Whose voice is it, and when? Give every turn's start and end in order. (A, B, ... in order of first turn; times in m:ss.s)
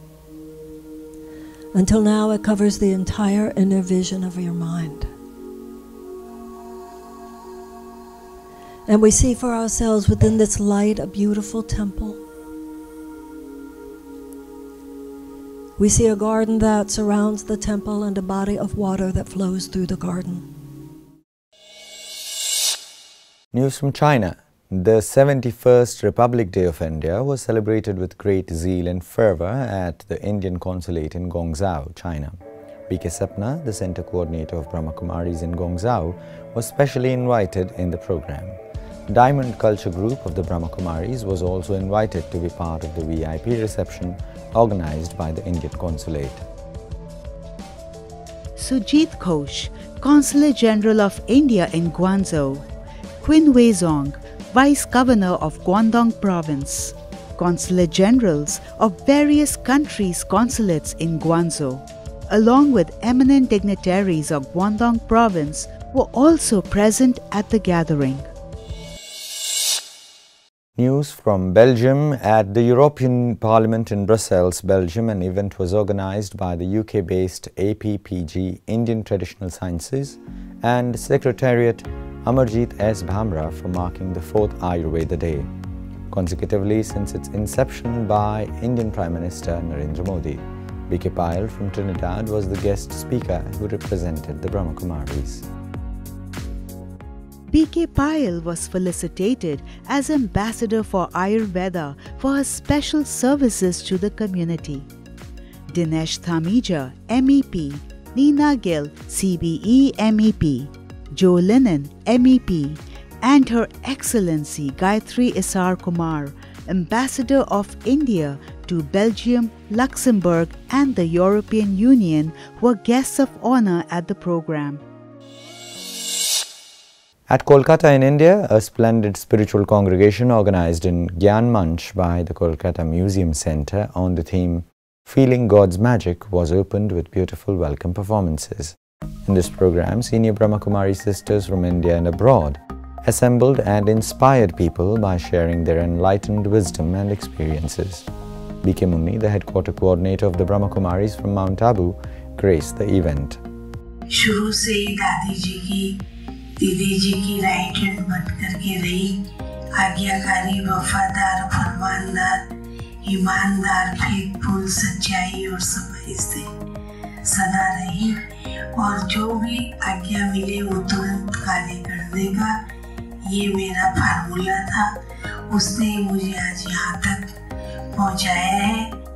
0:01.7-0:05.1 A
0:08.9-0:12.2 A
0:15.8-0:20.5 A
0:23.5-0:32.4 B
0:32.9-0:38.6 B
0:39.1-0:46.4 B
0:48.6-0:52.6 C
0:53.2-1:08.2 C
1:10.8-1:25.5 B
1:26.1-1:35.4 B
1:37.5-1:44.9 C
1:45.7-2:04.8 C
2:07.3-2:28.1 B
2:28.6-2:33.4 B
2:34.1-2:36.0 D
2:36.6-2:39.2 D
2:39.8-2:42.4 D
2:43.0-2:46.5 D
2:47.2-2:48.2 D
2:48.8-2:52.5 D
2:53.2-2:54.9 D
2:55.5-2:57.2 D
2:58.0-2:58.9 D